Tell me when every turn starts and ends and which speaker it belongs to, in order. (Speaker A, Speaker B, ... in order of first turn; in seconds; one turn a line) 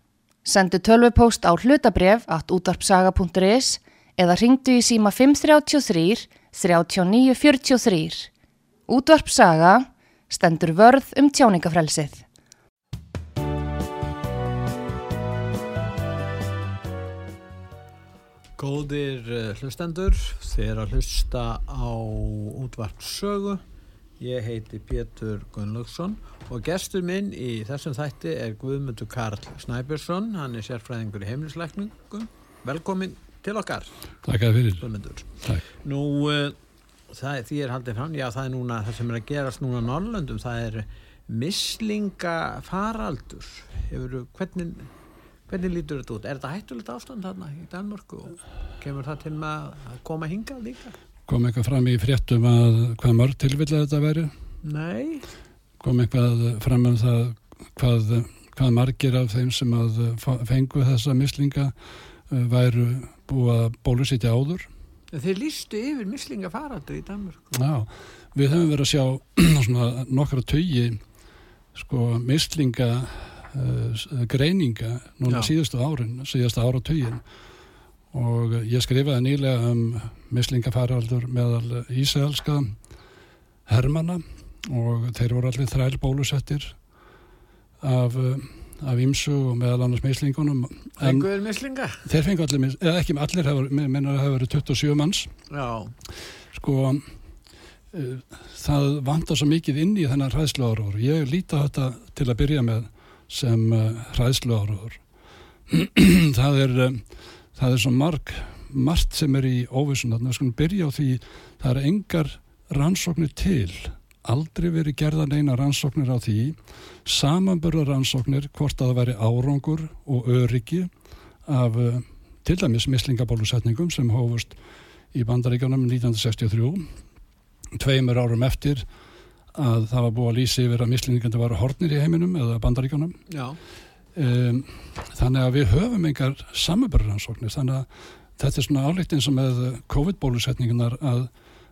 Speaker A: 0.4-8.3
Speaker A: 8.9-12.2
Speaker B: 18.6-23.6
Speaker B: 24.2-33.9
Speaker C: 34.2-34.9
Speaker B: 34.8-36.6
Speaker B: 37.1-44.9
Speaker B: 45.5-51.0
Speaker C: 51.3-54.3
Speaker B: 54.6-55.2
Speaker C: 55.8-61.7
Speaker C: 62.3-64.7
Speaker B: 65.1-67.5
Speaker C: 67.5-71.0
Speaker C: 71.7-77.2
Speaker B: 75.2-75.5
Speaker C: 78.1-82.7
Speaker C: 83.7-86.8
Speaker C: 87.8-91.2
Speaker B: 91.0-92.0
Speaker C: 92.0-95.3
Speaker B: 95.5-95.9
Speaker C: 96.5-97.0
Speaker C: 97.9-105.0
Speaker C: 105.7-120.9
Speaker C: 121.5-124.6
Speaker C: 125.1-126.8
Speaker C: 127.7-128.8
Speaker C: 129.5-133.2
Speaker B: 133.3-133.6
Speaker C: 134.1-141.3